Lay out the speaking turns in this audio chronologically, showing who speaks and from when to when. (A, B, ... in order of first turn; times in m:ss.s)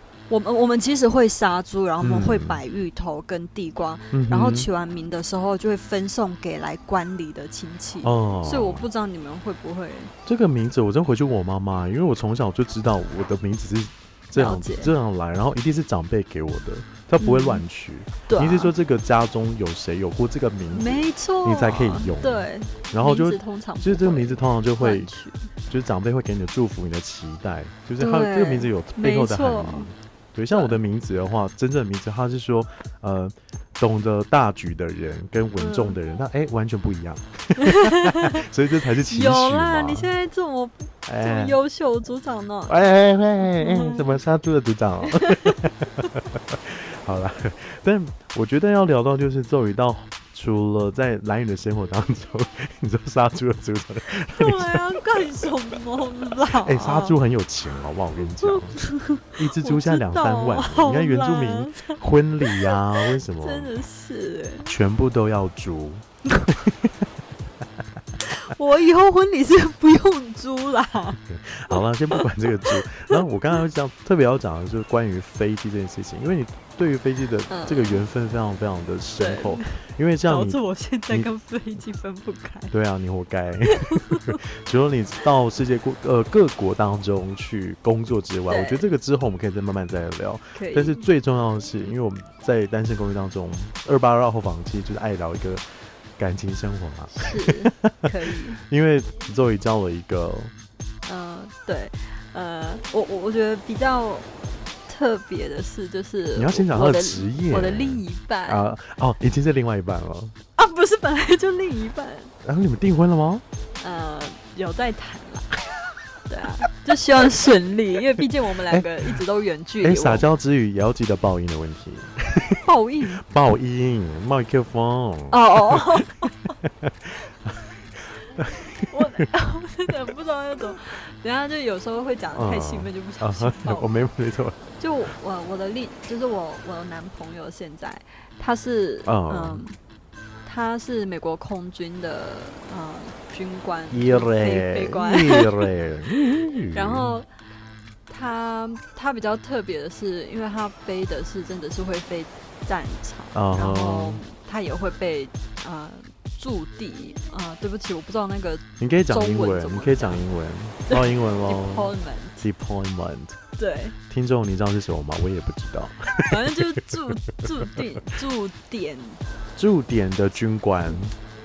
0:00.3-0:10.1 A
0:02.0-0:02.6 B
0:04.1-0:04.7 B
0:08.0-0:08.8 B
0:10.2-0:25.1 B
0:14.3-0:14.9 A
0:17.2-0:17.6 A
0:18.3-0:18.7 A
0:20.7-0:25.5 A
0:25.7-0:40.1 B
0:28.0-0:29.9 A
0:30.5-0:30.8 A
0:35.6-0:36.0 A
0:37.6-0:38.4 A
0:39.1-0:42.8 A
0:41.0-0:41.6 B
0:42.7-0:55.2 B
0:43.4-0:44.1 A
0:45.2-0:45.6 A
0:54.3-0:57.2 A
0:56.6-0:58.8 B
0:58.4-1:04.7 A
0:59.4-1:03.7 B
1:04.6-1:07.0 B
1:08.2-1:13.2 A
1:11.3-1:20.6 B
1:17.5-1:18.0 A
1:19.2-1:22.7 A
1:22.7-1:35.6 B
1:23.7-1:24.4 A
1:28.5-1:28.8 A
1:30.5-1:31.0 A
1:36.2-1:40.5 B
1:37.1-1:38.6 A
1:41.0-1:44.3 A
1:44.9-1:48.6 A
1:46.4-1:50.3 B
1:50.6-1:52.3 A
1:52.4-1:53.4 B
1:53.8-1:55.5 A
1:56.3-2:00.2 A
1:58.7-1:59.1 B
1:59.8-2:02.6 B
2:02.6-2:03.2 A
2:03.2-2:09.2 B
2:05.3-2:06.5 A
2:08.9-2:13.9 A
2:12.3-2:14.6 B
2:14.8-2:19.8 A
2:19.0-2:19.6 B
2:20.4-2:25.7 A
2:23.9-2:27.2 B
2:26.7-2:27.3 A
2:28.1-2:40.2 A
2:33.3-2:34.2 B
2:38.8-2:43.4 B
2:40.9-2:42.5 A
2:43.6-2:43.9 A
2:44.1-2:47.5 B
2:46.3-2:49.2 A
2:49.6-2:51.1 B